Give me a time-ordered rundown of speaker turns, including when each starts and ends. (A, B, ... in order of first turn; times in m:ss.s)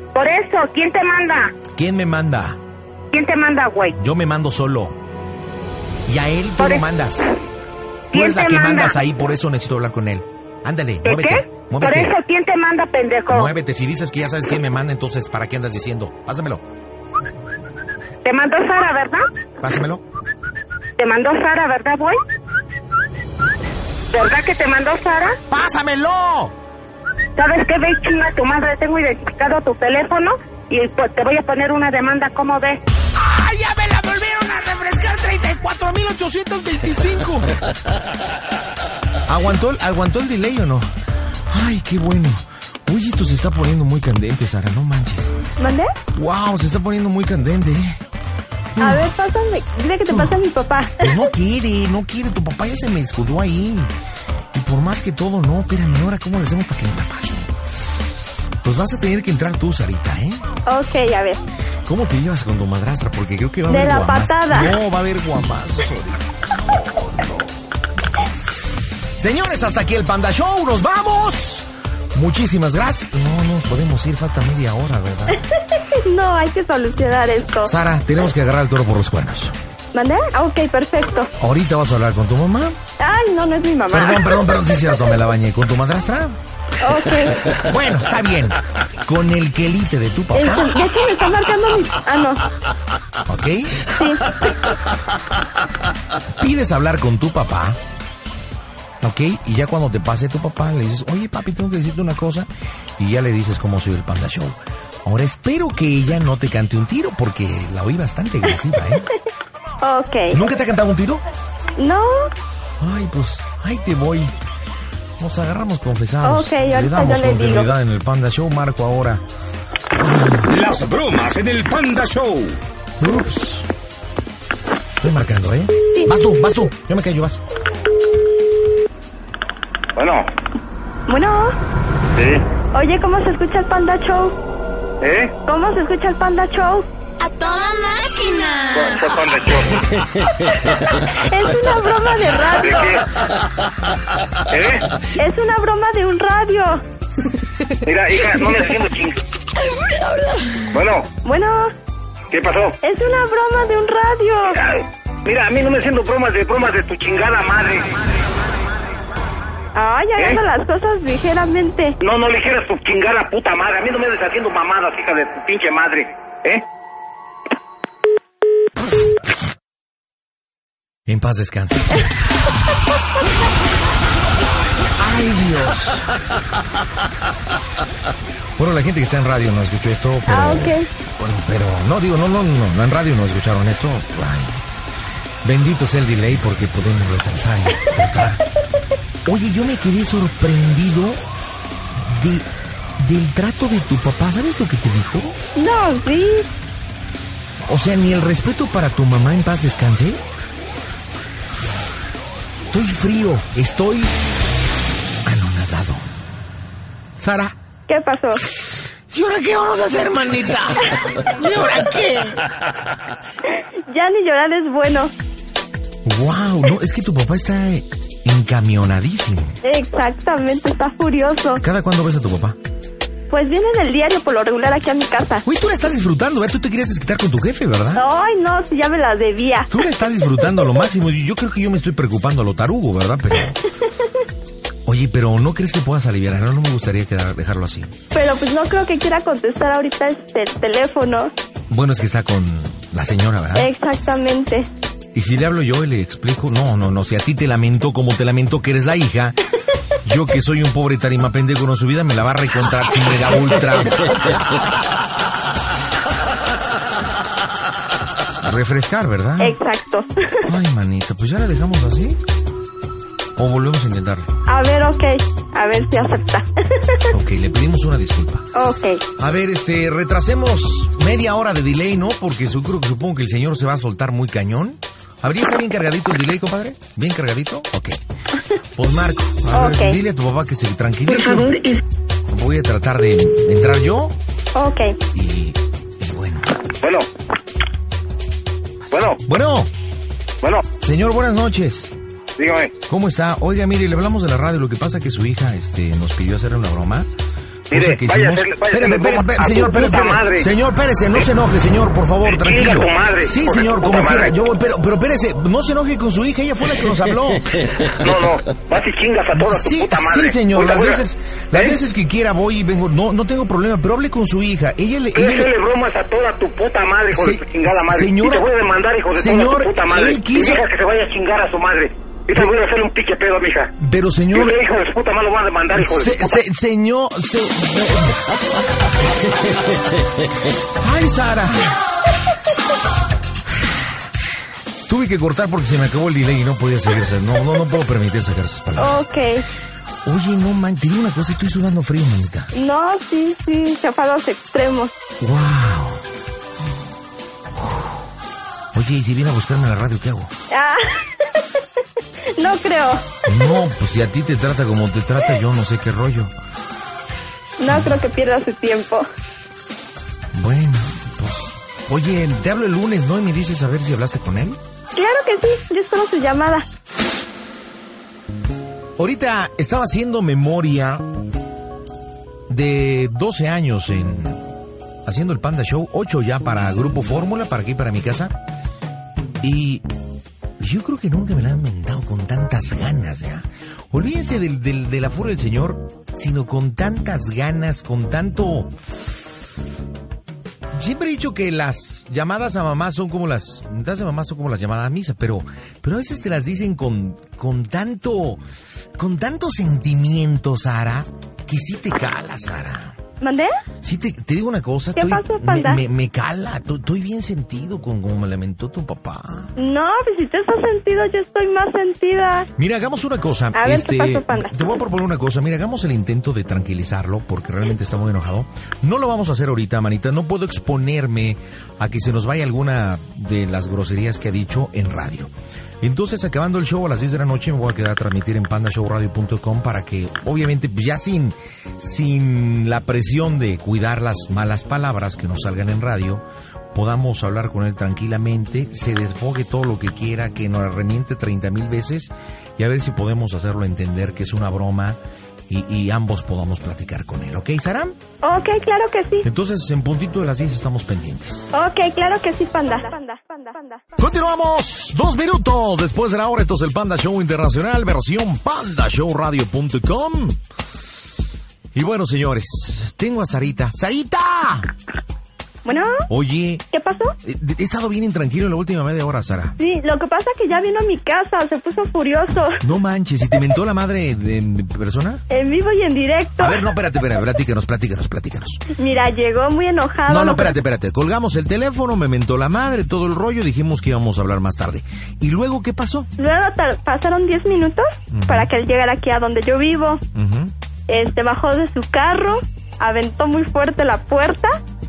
0:00.2-0:01.6 A
0:01.7-0:02.6 B
0:03.1-0:04.0 A
0:04.0-0:05.0 B
0:06.1-0:07.3 B
0:06.6-0:06.8 A
0:08.1-0:12.2 B
0:08.1-0:09.0 A
0:11.0-0:13.5 A
0:13.3-0:16.6 B
0:18.2-0:19.2 A
0:19.6-0:20.0 B
0:21.0-0:22.2 A
0:24.1-0:25.4 A
0:25.5-0:26.6 B
0:27.4-0:32.8 A
0:33.2-0:37.6 B
0:39.3-0:40.9 B
0:41.5-0:45.3 B
0:45.6-0:45.9 C
0:46.1-0:48.0 B
0:48.7-0:49.1 B
0:48.8-0:51.2 C
0:50.1-0:50.4 B
0:51.0-0:53.9 B
0:54.5-0:57.5 B
0:58.6-1:00.5 B
1:00.7-1:01.4 C
1:01.8-1:07.4 B
1:03.7-1:04.7 C
1:09.2-1:15.4 B
1:15.3-1:17.7 C
1:17.6-1:19.6 B
1:19.9-1:21.3 C
1:21.4-1:22.8 B
1:23.0-1:24.4 C
1:23.9-1:26.4 B
1:26.8-1:27.6 C
1:27.5-1:30.9 B
1:30.3-1:32.5 C
1:33.2-1:33.9 B
1:33.9-1:34.3 C
1:36.4-1:37.8 B
1:39.0-1:49.1 B
1:49.8-1:50.4 C
1:50.3-1:51.2 B
1:51.8-1:52.3 C
1:52.8-1:54.4 B
1:55.2-1:59.2 B
1:56.2-1:57.7 C
2:00.0-2:00.7 B
2:00.5-2:02.5 D
2:03.0-2:03.7 B
2:05.0-2:07.4 B
2:10.0-2:10.3 E
2:11.1-2:11.6 C
2:12.2-2:12.4 E
2:12.7-2:14.4 C
2:15.0-2:15.3 E
2:15.5-2:16.9 C
2:17.2-2:19.2 F
2:18.8-2:19.9 E
2:20.5-2:23.0 C
2:22.6-2:23.1 E
2:24.5-2:24.9 E
2:25.2-2:26.8 C
2:27.8-2:29.2 E
2:30.7-2:31.1 E
2:31.2-2:31.7 C
2:32.3-2:32.8 E
2:32.8-2:34.6 C
2:34.5-2:38.0 E
2:39.8-2:42.0 C
2:42.0-2:46.6 E
2:51.1-2:52.1 B
2:55.0-2:56.2 B
2:58.6-3:04.6 B
3:00.3-3:00.9 C
3:05.4-3:08.4 B
3:09.2-3:11.2 B
3:11.9-3:12.5 B
3:13.0-3:15.4 B
3:15.6-3:16.5 C
3:17.6-3:20.2 B
3:22.7-3:24.1 B
3:25.2-3:26.1 B
3:27.2-3:27.6 B
3:27.9-3:28.4 C
3:28.6-3:32.4 B
3:33.6-3:35.1 C
3:36.0-3:39.6 B
3:39.6-3:41.6 C
3:41.6-3:42.6 B
3:43.3-3:45.4 C
3:45.4-3:48.0 B
3:48.0-3:49.7 C
3:49.7-3:53.6 B
3:54.9-3:57.9 B
3:58.1-4:01.3 C
4:01.7-4:03.7 B
4:03.6-4:04.7 C
4:05.1-4:09.4 B
4:10.0-4:14.4 B
4:18.4-4:19.6 B
4:19.4-4:20.5 C
4:20.5-4:22.2 B
4:23.4-4:24.3 B
4:24.5-4:27.1 C
4:27.1-4:28.5 B
4:28.6-4:29.0 C
4:29.2-4:38.0 B
4:38.7-4:41.6 B
4:39.5-4:40.0 C
4:42.3-4:44.2 B
4:44.6-4:45.0 C
4:45.1-4:46.6 B
4:46.8-4:47.1 E
4:48.8-4:49.7 B
4:48.9-4:49.2 E
4:50.8-4:51.9 B
4:52.4-4:52.8 E
4:52.9-4:57.1 B
4:57.7-5:07.8 B
4:57.7-5:00.5 E
5:02.2-5:04.4 E
5:08.0-5:11.0 E
5:09.3-5:15.5 B
5:11.5-5:11.8 E
5:15.2-5:23.7 E
5:17.1-5:18.5 B
5:19.1-5:20.7 B
5:23.8-5:24.6 B
5:24.3-5:26.3 E
5:25.7-5:31.8 B
5:34.9-5:39.1 B
5:38.8-5:39.5 C
5:40.0-5:42.5 B
5:42.5-5:44.9 C
5:45.2-5:46.0 B
5:47.6-5:48.0 B
5:48.7-5:50.3 B
5:50.5-5:51.6 C
5:52.3-5:53.6 C
5:53.3-5:56.3 B
5:57.6-5:59.1 C
5:57.7-5:58.0 B
6:00.3-6:04.6 B
6:05.0-6:06.7 C
6:09.0-6:11.1 B
6:12.5-6:14.5 B
6:15.0-6:18.4 B
6:19.4-6:19.9 B
6:20.6-6:29.1 B
6:30.7-6:38.4 B
6:39.0-6:43.0 B
6:43.2-6:43.5 C
6:43.8-6:49.5 B
6:45.0-6:45.8 C
6:49.6-6:52.5 C
6:52.6-7:28.0 B
6:53.6-6:54.8 C
7:28.2-7:29.3 C
7:29.2-7:31.5 B
7:31.5-7:33.8 C
7:34.0-7:40.4 B
7:41.7-7:44.7 B
7:45.6-7:46.0 C
7:46.1-7:46.6 B
7:46.7-7:47.2 C
7:47.2-7:49.6 B
7:49.6-7:52.6 C
7:52.6-7:55.2 B
7:55.3-7:56.6 C
7:56.4-7:58.6 B
7:58.8-8:00.6 C
8:00.1-8:06.1 B
8:06.2-8:10.0 C
8:08.1-8:08.5 B
8:10.1-8:10.5 B
8:10.9-8:14.6 C